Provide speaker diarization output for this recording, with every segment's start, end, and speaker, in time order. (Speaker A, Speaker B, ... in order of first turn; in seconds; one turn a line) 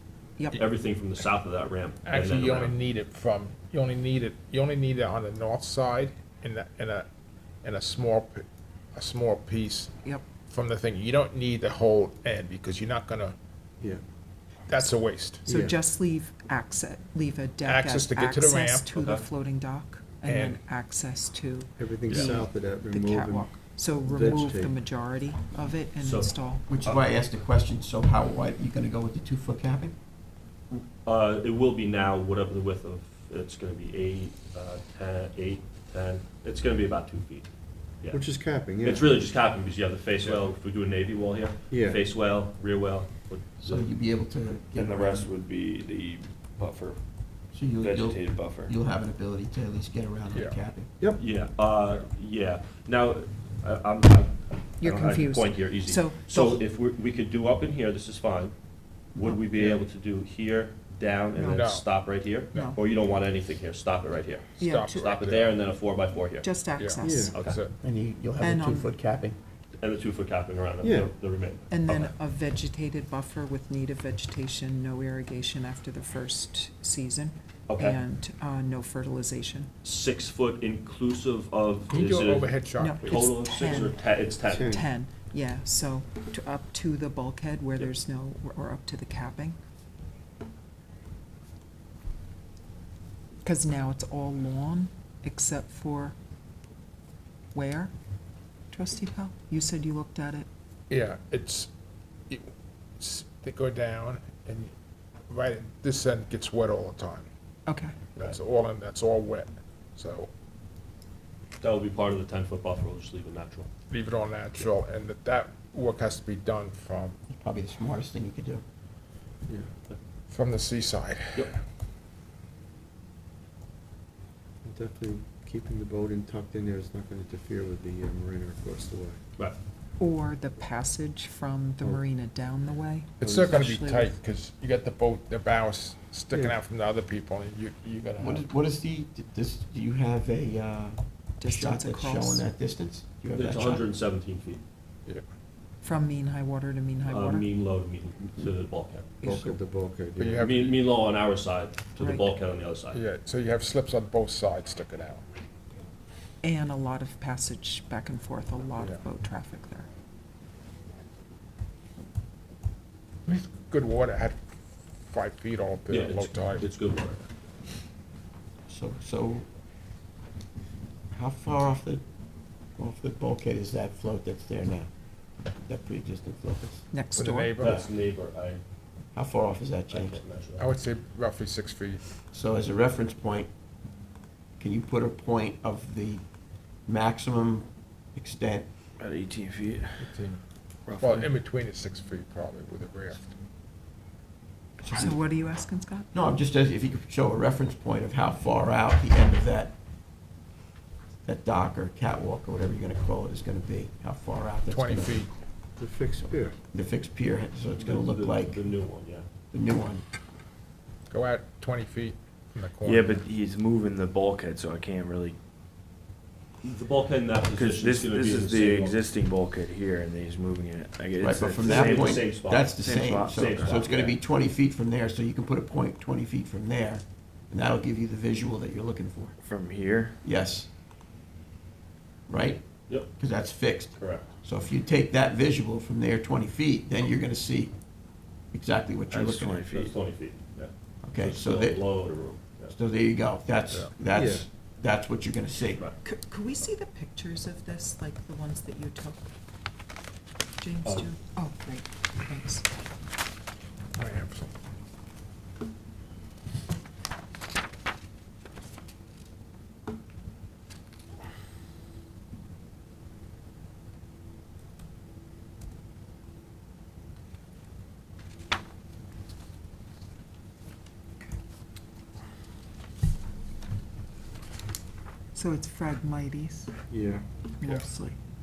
Speaker A: 0.5-2.8
Speaker B: 2.0-7.1
Speaker B: 7.6-9.9
Speaker B: 10.5-13.4
Speaker B: 14.7-15.5
Speaker C: 15.4-26.6
Speaker D: 15.5-15.8
Speaker B: 17.6-19.1
Speaker A: 19.0-19.2
Speaker B: 20.2-20.6
Speaker D: 21.8-24.8
Speaker A: 22.1-22.5
Speaker A: 26.0-27.1
Speaker E: 26.7-29.9
Speaker A: 30.7-37.5
Speaker A: 38.0-43.9
Speaker D: 38.1-39.2
Speaker D: 41.7-42.0
Speaker E: 43.6-45.3
Speaker F: 44.7-47.0
Speaker E: 47.5-50.9
Speaker F: 47.8-48.7
Speaker B: 50.3-50.6
Speaker A: 51.2-58.5
Speaker C: 54.8-56.6
Speaker A: 59.1-66.5
Speaker C: 61.3-61.7
Speaker B: 61.5-61.9
Speaker C: 64.6-65.1
Speaker B: 64.6-65.6
Speaker C: 66.4-67.3
Speaker B: 66.8-67.8
Speaker D: 67.0-67.4
Speaker A: 67.3-67.6
Speaker E: 67.8-69.4
Speaker C: 68.4-68.9
Speaker A: 69.8-72.1
Speaker D: 70.8-71.1
Speaker C: 71.7-79.7
Speaker A: 77.7-78.0
Speaker A: 79.8-84.7
Speaker B: 81.9-83.2
Speaker C: 82.8-84.0
Speaker D: 84.5-84.9
Speaker C: 84.7-89.6
Speaker C: 93.4-96.2
Speaker C: 97.5-97.9
Speaker C: 98.7-100.5
Speaker B: 100.9-101.7
Speaker B: 102.3-104.7
Speaker B: 105.3-107.3
Speaker C: 107.7-108.0
Speaker B: 108.2-110.3
Speaker A: 111.6-113.7
Speaker B: 113.9-117.2
Speaker E: 117.3-118.6
Speaker B: 120.3-121.5
Speaker D: 124.6-129.2
Speaker C: 130.0-134.2
Speaker B: 133.2-138.5
Speaker D: 133.2-133.6
Speaker D: 136.3-136.6
Speaker E: 138.2-143.9
Speaker C: 141.4-142.4
Speaker A: 143.3-144.6
Speaker C: 145.8-147.5
Speaker A: 147.1-149.1
Speaker C: 149.2-149.6
Speaker D: 149.2-150.5
Speaker B: 150.2-150.8
Speaker A: 150.4-153.0
Speaker C: 152.0-152.3
Speaker B: 152.9-155.2
Speaker C: 156.4-159.9
Speaker B: 163.3-164.4
Speaker B: 165.0-166.7
Speaker A: 165.9-167.2
Speaker E: 168.7-169.5
Speaker E: 171.1-172.0
Speaker E: 172.8-174.9
Speaker E: 175.7-176.9
Speaker C: 176.9-177.6
Speaker B: 177.2-177.9
Speaker A: 177.6-178.6
Speaker E: 179.1-180.2
Speaker A: 179.9-180.7
Speaker B: 180.6-182.0
Speaker E: 182.3-183.5
Speaker E: 184.6-186.2
Speaker E: 186.9-188.7
Speaker F: 189.0-190.2
Speaker B: 190.0-190.4
Speaker F: 190.9-191.3
Speaker B: 191.0-193.3
Speaker E: 194.8-195.2
Speaker C: 194.9-196.1
Speaker E: 196.1-199.8
Speaker E: 201.2-205.2
Speaker B: 204.7-205.3
Speaker D: 205.8-206.6
Speaker E: 206.7-208.6
Speaker A: 207.8-209.3
Speaker E: 209.5-210.0
Speaker B: 211.1-213.3
Speaker F: 212.8-215.4
Speaker A: 216.6-219.0
Speaker F: 217.5-223.9
Speaker E: 221.2-229.3
Speaker A: 221.6-224.2
Speaker F: 229.4-230.2
Speaker E: 230.2-230.7
Speaker E: 232.3-237.7
Speaker A: 234.0-234.3
Speaker E: 238.5-239.7
Speaker F: 239.1-240.0
Speaker A: 239.7-242.8
Speaker E: 241.0-241.9
Speaker E: 242.7-245.8
Speaker D: 244.1-244.5
Speaker C: 246.0-249.2
Speaker C: 250.6-252.7
Speaker B: 254.0-254.6
Speaker C: 275.3-276.7
Speaker D: 276.9-277.3
Speaker C: 277.6-278.2
Speaker B: 277.6-277.9